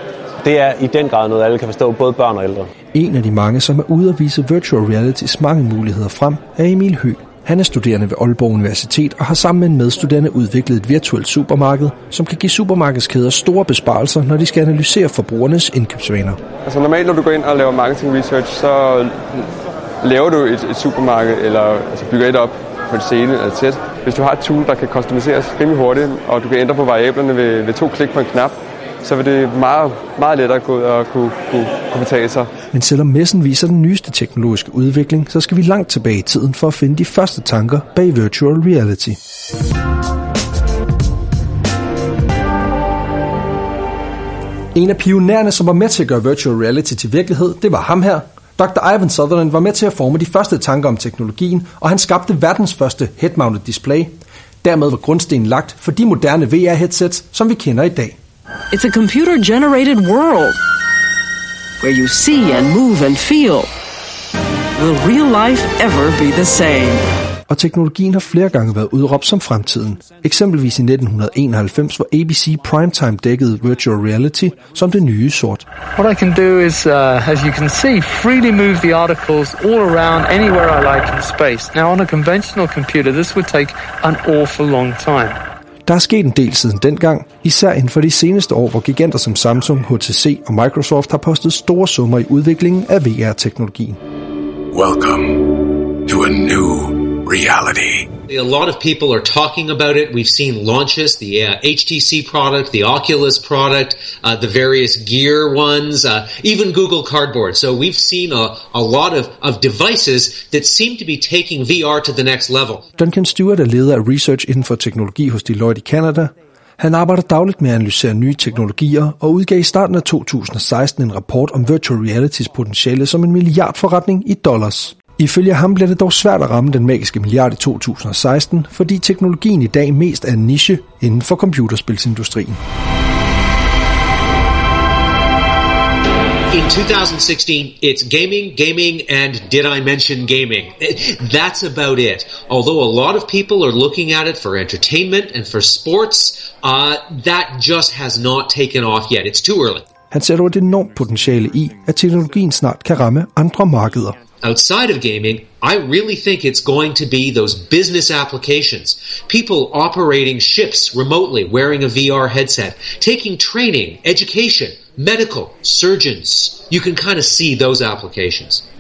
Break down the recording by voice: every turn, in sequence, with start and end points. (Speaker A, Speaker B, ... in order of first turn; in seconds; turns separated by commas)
Speaker A: 0.4-2.7, Speaker B: 2.9-16.4, Speaker C: 16.6-32.5, Speaker B: 32.7-39.2, Speaker B: 44.7-58.2, Speaker D: 58.7-60.6, Speaker D: 61.8-63.7, Speaker D: 64.8-67.0, Speaker B: 67.5-75.7, Speaker E: 76.0-85.4, Speaker B: 85.9-94.0, Speaker F: 94.7-98.1, Speaker G: 98.3-112.8, Speaker B: 113.0-132.6, Speaker G: 136.5-149.9, Speaker B: 150.1-154.2, Speaker G: 154.4-168.6